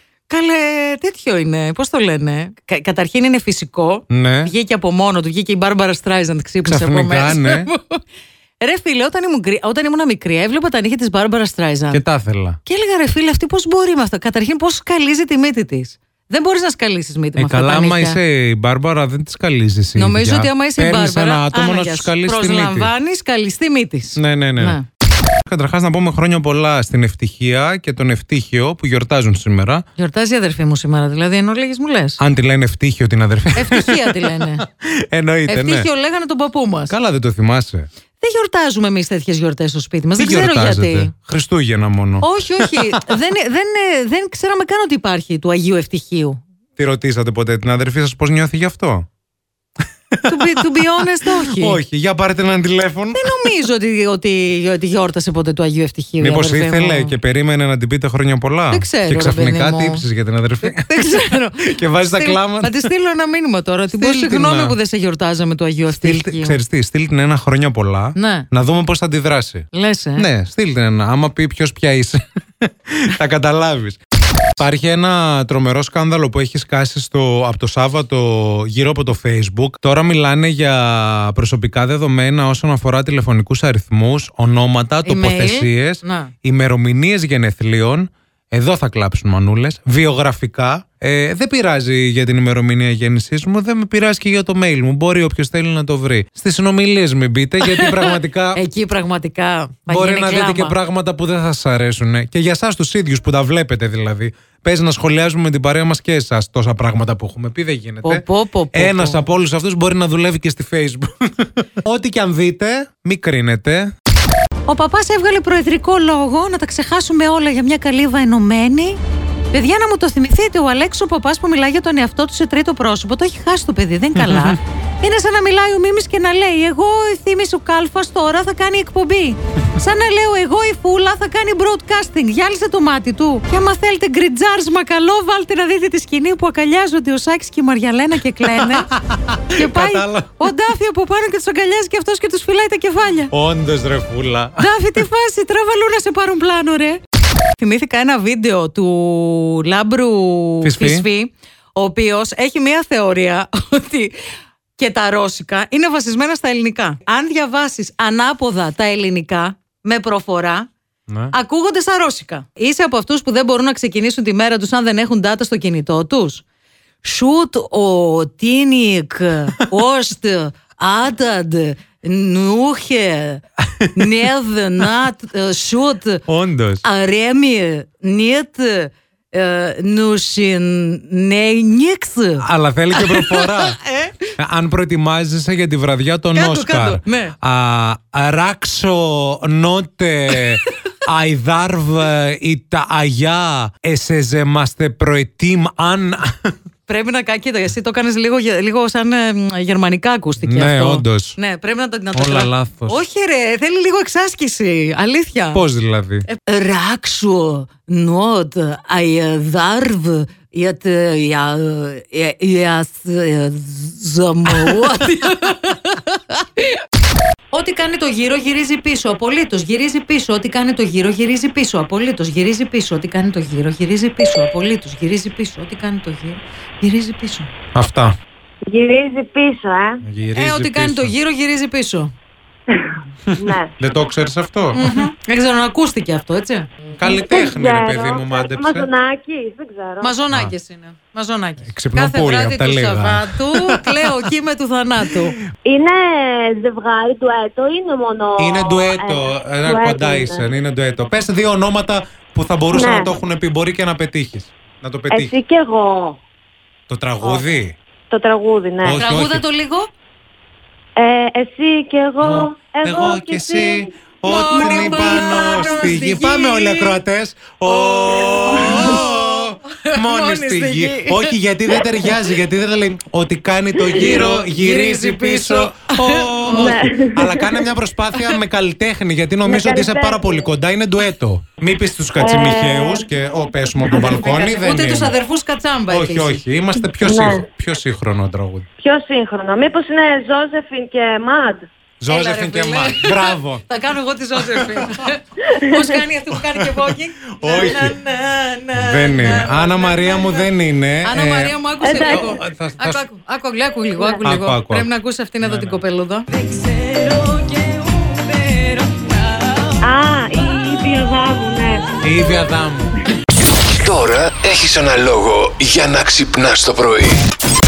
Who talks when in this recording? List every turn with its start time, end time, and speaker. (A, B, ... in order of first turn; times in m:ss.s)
0:00.3-0:08.0 A
0:04.1-0:04.5 B
0:06.6-0:07.7 B
0:08.6-0:12.0 A
0:11.9-0:12.6 B
0:12.6-0:18.2 A
0:17.4-0:22.9 B
0:19.9-0:24.8 A
0:24.2-0:24.8 B
0:25.4-0:29.8 B
0:30.0-0:32.2 A
0:32.2-0:35.9 B
0:33.6-0:34.6 A
0:35.5-0:36.9 A
0:36.9-0:37.9 B
0:38.2-0:41.1 A
0:40.2-0:43.0 B
0:42.2-0:46.4 A
0:46.8-0:49.1 B
0:50.1-0:53.3 B
0:50.3-0:51.8 A
0:53.1-0:57.1 A
0:56.2-1:02.9 B
0:58.7-1:00.0 A
1:00.6-1:06.6 A
1:03.9-1:04.8 B
1:05.9-1:14.0 B
1:08.2-1:08.5 A
1:09.7-1:10.3 A
1:14.5-1:38.6 B
1:25.0-1:26.3 A
1:37.6-1:40.7 A
1:39.9-1:53.9 B
1:48.0-1:49.2 A
1:54.7-1:59.0 A
1:59.5-2:18.9 A
2:04.2-2:04.6 B
2:18.4-2:20.4 B
2:19.5-2:23.3 A
2:23.3-2:25.0 B
2:24.6-2:27.0 A
2:27.6-2:34.2 A
2:30.6-2:31.1 B
2:34.8-2:40.7 A
2:41.1-2:41.3 B
2:41.3-2:46.4 A
2:47.0-2:53.4 A
2:53.8-2:54.1 B
2:53.9-2:56.2 A
2:56.3-2:56.8 B
2:56.8-3:04.2 A
3:02.4-3:03.8 B
3:04.4-3:16.5 B
3:06.3-3:07.3 A
3:16.9-3:25.6 A
3:20.4-3:21.4 B
3:22.1-3:23.0 B
3:25.5-3:26.3 B
3:26.3-3:36.8 A
3:37.5-3:47.5 A
3:47.7-3:48.1 B
3:48.7-3:50.0 C
3:50.0-3:51.1 B
3:50.3-3:52.1 A
3:52.7-3:53.7 C
3:53.3-3:55.0 B
3:54.7-3:56.7 A
3:57.0-3:58.9 B
3:57.0-4:00.1 C
4:00.0-4:05.4 A
4:01.6-4:04.2 B
4:05.6-4:10.5 C
4:08.4-4:15.3 B
4:12.7-4:13.1 C
4:15.1-4:16.2 C
4:16.9-4:17.8 B
4:17.2-4:17.5 C
4:18.1-4:19.0 C
4:18.8-4:19.4 B
4:18.8-4:19.9 A
4:21.0-4:26.0 C
4:22.2-4:45.2 B
4:24.2-4:27.0 A
4:27.6-4:31.4 A
4:28.2-4:29.0 C
4:33.8-4:34.3 C
4:33.9-4:36.7 A
4:36.5-4:37.6 C
4:39.4-4:40.5 C
4:42.2-4:43.0 C
4:43.8-4:44.2 C
4:44.0-4:46.4 A
4:45.9-4:48.6 B
4:47.0-4:47.4 C
4:48.8-4:51.6 C
4:52.0-4:53.6 B
4:52.1-5:00.5 A
4:54.5-4:54.8 B
4:57.4-4:57.9 B
4:58.7-5:03.0 B
5:01.0-5:09.7 A
5:01.8-5:02.3 C
5:04.2-5:05.8 B
5:09.8-5:11.9 C
5:12.0-5:12.9 B
5:13.7-5:17.2 D